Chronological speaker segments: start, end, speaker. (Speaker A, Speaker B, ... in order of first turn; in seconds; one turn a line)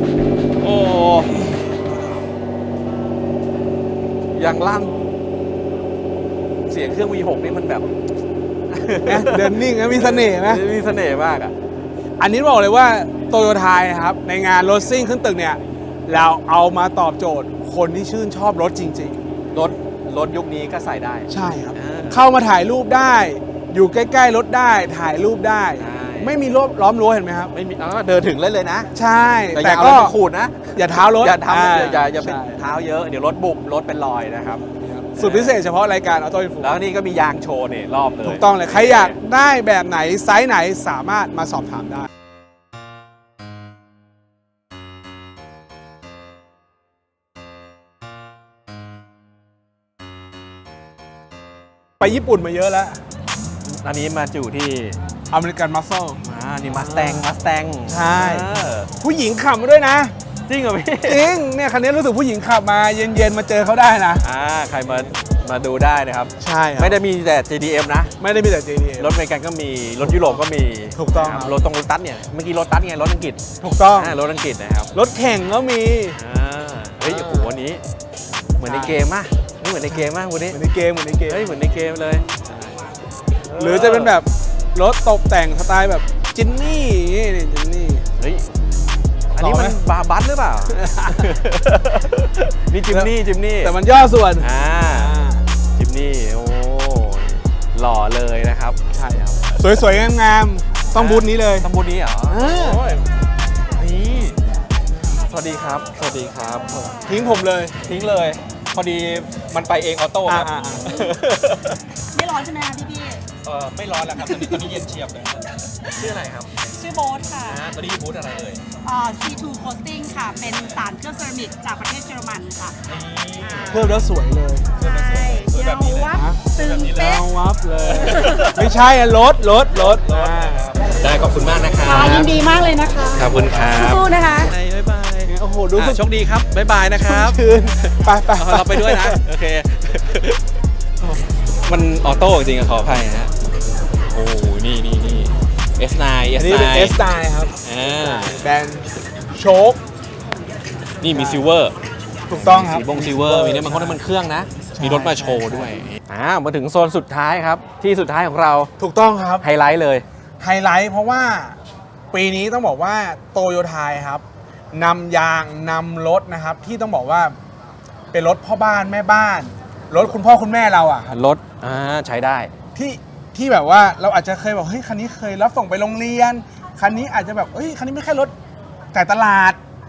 Speaker A: 0.6-1.4
Speaker A: 4.3-5.0
Speaker A: 6.7-7.9
Speaker A: 8.7-11.5
Speaker B: 9.1-10.6
Speaker B: 12.2-19.2
Speaker A: 19.5-22.2
Speaker B: 21.3-27.5
Speaker A: 25.8-26.3
Speaker A: 27.5-28.9
Speaker B: 28.9-30.1
Speaker A: 29.5-34.6
Speaker B: 30.8-32.6
Speaker B: 34.8-36.8
Speaker A: 35.2-35.6
Speaker A: 36.6-39.2
Speaker B: 38.2-42.1
Speaker B: 52.0-53.0
Speaker A: 53.6-55.0
Speaker B: 55.3-57.3
Speaker A: 56.2-58.9
Speaker B: 57.9-60.1
Speaker A: 60.5-61.3
Speaker B: 61.0-64.2
Speaker A: 64.2-68.2
Speaker B: 66.4-67.0
Speaker B: 68.2-69.1
Speaker A: 69.0-74.9
Speaker B: 70.0-70.4
Speaker B: 71.0-71.5
Speaker B: 73.6-74.2
Speaker B: 74.9-76.2
Speaker A: 76.1-77.8
Speaker B: 77.0-77.5
Speaker A: 78.6-80.6
Speaker B: 78.6-79.0
Speaker B: 80.5-81.4
Speaker A: 81.3-82.3
Speaker A: 83.4-84.2
Speaker B: 83.6-88.0
Speaker A: 88.2-88.5
Speaker A: 89.3-93.7
Speaker B: 89.4-89.8
Speaker B: 90.7-91.3
Speaker B: 92.9-95.4
Speaker A: 94.4-95.2
Speaker A: 95.8-98.8
Speaker B: 98.9-101.7
Speaker A: 100.9-102.8
Speaker B: 102.3-103.0
Speaker A: 103.8-104.4
Speaker A: 105.3-111.8
Speaker B: 107.1-107.8
Speaker B: 110.3-111.1
Speaker C: 112.1-113.2
Speaker A: 113.4-116.6
Speaker C: 116.7-117.6
Speaker A: 117.5-118.6
Speaker C: 118.8-122.8
Speaker A: 122.8-123.9
Speaker B: 123.7-124.7
Speaker A: 124.8-127.2
Speaker C: 124.8-127.3
Speaker B: 126.1-126.4
Speaker B: 127.0-130.7
Speaker A: 127.8-128.7
Speaker C: 128.0-128.5
Speaker A: 129.7-132.3
Speaker C: 131.8-134.5
Speaker A: 133.1-140.4
Speaker B: 135.3-136.0
Speaker B: 137.0-139.2
Speaker A: 141.7-143.3
Speaker A: 144.1-147.0
Speaker B: 146.4-149.8
Speaker A: 147.6-148.4
Speaker A: 151.0-151.7
Speaker B: 151.1-151.5
Speaker B: 152.3-154.0
Speaker A: 152.3-158.7
Speaker B: 154.8-155.7
Speaker B: 158.8-159.4
Speaker A: 159.4-160.0
Speaker B: 160.4-161.6
Speaker B: 162.1-167.3
Speaker B: 168.1-171.1
Speaker A: 171.1-172.5
Speaker B: 172.8-178.3
Speaker B: 178.9-179.6